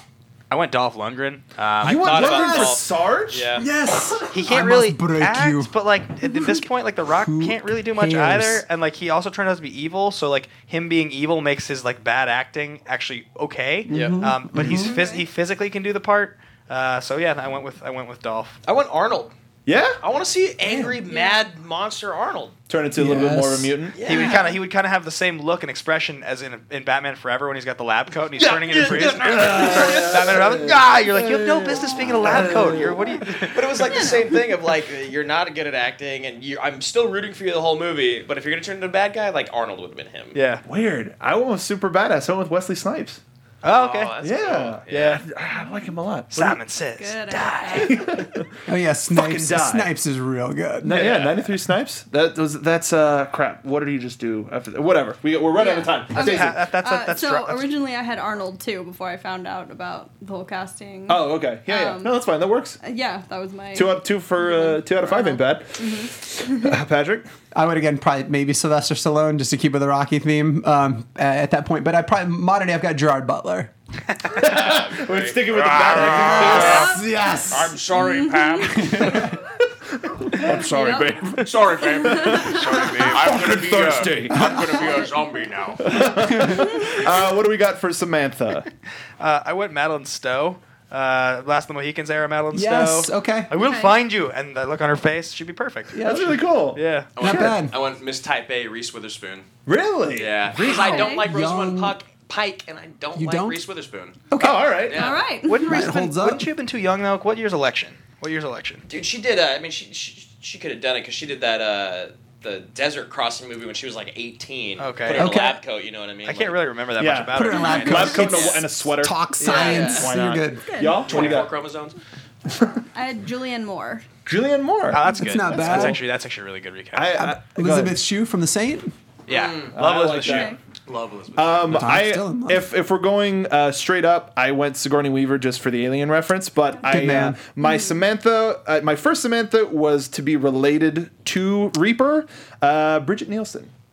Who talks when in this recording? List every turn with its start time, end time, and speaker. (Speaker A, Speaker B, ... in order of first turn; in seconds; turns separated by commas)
Speaker A: 0.5-2.3, Speaker B: 1.8-3.6, Speaker C: 1.8-3.7, Speaker D: 2.2-2.8, Speaker D: 3.5-6.7, Speaker A: 4.3-18.6, Speaker D: 7.3-8.6, Speaker D: 13.9-15.0, Speaker C: 13.9-14.2, Speaker E: 14.7-15.2, Speaker C: 18.6-19.3, Speaker B: 19.7-20.0, Speaker C: 20.0-22.6, Speaker D: 20.6-20.9, Speaker E: 21.1-21.4, Speaker B: 22.7-24.0, Speaker D: 23.0-23.8, Speaker C: 23.9-24.6, Speaker A: 24.1-33.9, Speaker C: 28.4-30.8, Speaker B: 29.2-33.5, Speaker C: 33.4-40.4, Speaker A: 40.3-40.6, Speaker B: 40.6-43.2, Speaker A: 43.6-44.2, Speaker C: 43.7-45.2, Speaker B: 44.2-46.6, Speaker A: 44.9-45.2, Speaker A: 46.3-48.1, Speaker E: 47.0-48.1, Speaker B: 47.7-48.5, Speaker D: 48.7-51.0, Speaker B: 49.1-50.0, Speaker B: 50.8-56.6, Speaker A: 50.9-51.5, Speaker E: 55.6-62.2, Speaker A: 56.1-57.7, Speaker B: 61.1-62.8, Speaker E: 62.8-66.7, Speaker B: 63.8-67.3, Speaker D: 67.5-73.7, Speaker B: 74.3-76.9, Speaker C: 74.4-76.9, Speaker A: 75.5-76.9, Speaker D: 76.0-77.9, Speaker E: 76.6-77.0, Speaker C: 77.5-79.3, Speaker E: 78.0-78.8, Speaker D: 78.6-79.4, Speaker B: 80.0-84.7, Speaker E: 80.5-81.3, Speaker C: 81.3-86.0, Speaker E: 82.0-82.8, Speaker A: 82.4-83.3, Speaker D: 84.3-85.0, Speaker E: 84.8-85.1, Speaker B: 85.8-88.7, Speaker D: 86.1-86.9, Speaker A: 89.2-96.1, Speaker D: 92.5-93.5, Speaker E: 93.6-93.9, Speaker D: 95.9-96.4, Speaker B: 96.0-97.6, Speaker A: 96.8-97.1, Speaker C: 97.2-99.5, Speaker D: 97.2-97.8, Speaker B: 99.7-100.4, Speaker C: 100.1-104.2, Speaker D: 100.5-102.0, Speaker E: 100.7-101.3, Speaker D: 103.2-103.6, Speaker D: 104.3-104.7, Speaker B: 104.4-105.2, Speaker C: 104.9-105.3, Speaker E: 104.9-105.9, Speaker A: 105.4-108.8, Speaker D: 105.6-106.5, Speaker C: 108.9-116.6, Speaker A: 114.8-115.4, Speaker D: 115.1-115.6, Speaker A: 116.2-118.4, Speaker B: 117.0-121.6, Speaker D: 117.3-120.8, Speaker E: 117.5-118.5, Speaker C: 119.5-120.1, Speaker E: 119.5-120.0, Speaker E: 120.7-121.2, Speaker C: 121.0-122.0, Speaker E: 122.9-124.0, Speaker B: 124.3-126.0, Speaker A: 124.9-127.2, Speaker D: 125.2-126.0, Speaker B: 126.9-128.0, Speaker D: 127.1-128.9, Speaker A: 129.3-130.6, Speaker C: 129.3-129.8, Speaker B: 129.7-130.6, Speaker E: 130.2-130.6, Speaker C: 130.9-131.9, Speaker B: 131.4-143.7, Speaker D: 131.7-132.7, Speaker D: 136.9-137.4, Speaker E: 137.6-138.0